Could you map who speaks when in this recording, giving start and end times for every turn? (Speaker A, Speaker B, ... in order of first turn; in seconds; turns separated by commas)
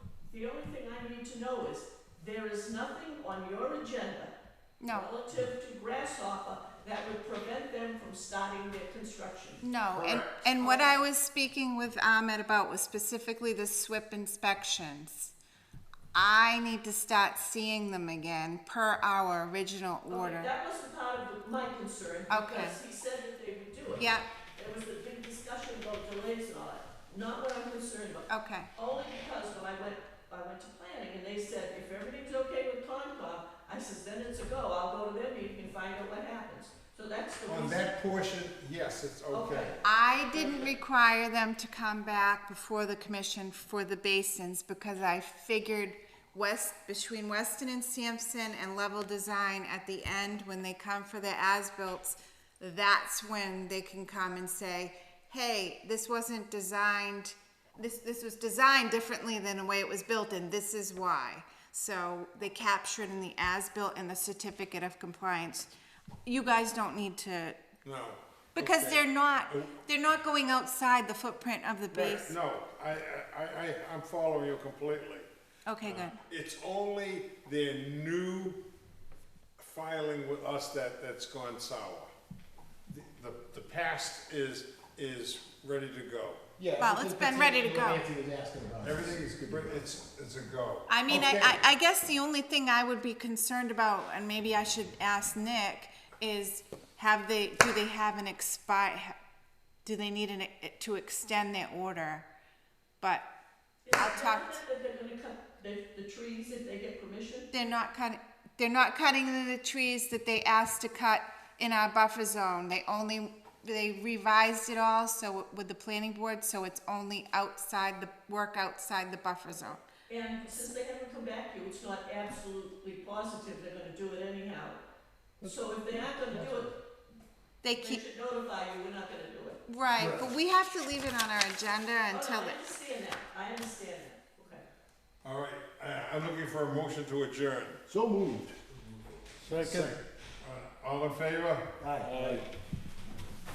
Speaker A: 0.3-4.3, Speaker B: 4.8-5.1, Speaker A: 4.9-9.6, Speaker B: 9.6-15.3, Speaker C: 9.9-10.4, Speaker A: 10.6-11.0, Speaker B: 16.1-20.5, Speaker A: 20.1-37.9, Speaker B: 22.3-22.8, Speaker B: 24.0-24.3, Speaker B: 28.3-28.7, Speaker C: 37.5-39.7, Speaker A: 39.3-39.8, Speaker B: 39.8-65.7, Speaker A: 40.3-40.7, Speaker B: 66.2-67.6, Speaker C: 67.8-69.7, Speaker B: 68.6-72.4, Speaker C: 71.9-75.3, Speaker B: 75.7-76.2, Speaker C: 75.8-78.6, Speaker C: 79.6-82.1, Speaker C: 82.9-86.5, Speaker D: 86.6-89.8, Speaker B: 86.8-88.1, Speaker C: 88.8-91.6, Speaker B: 90.9-99.2, Speaker B: 99.8-102.3, Speaker B: 103.0-103.3, Speaker A: 103.8-107.5, Speaker B: 104.0-104.6, Speaker B: 107.5-119.8, Speaker A: 120.1-124.8, Speaker A: 125.4-126.8, Speaker B: 127.6-128.0, Speaker A: 127.8-129.6, Speaker B: 129.7-132.6, Speaker D: 130.0-130.3, Speaker A: 132.1-134.7, Speaker C: 135.2-137.8, Speaker D: 137.9-138.6, Speaker D: 139.4-140.0, Speaker C: 139.4-142.5, Speaker D: 141.8-142.4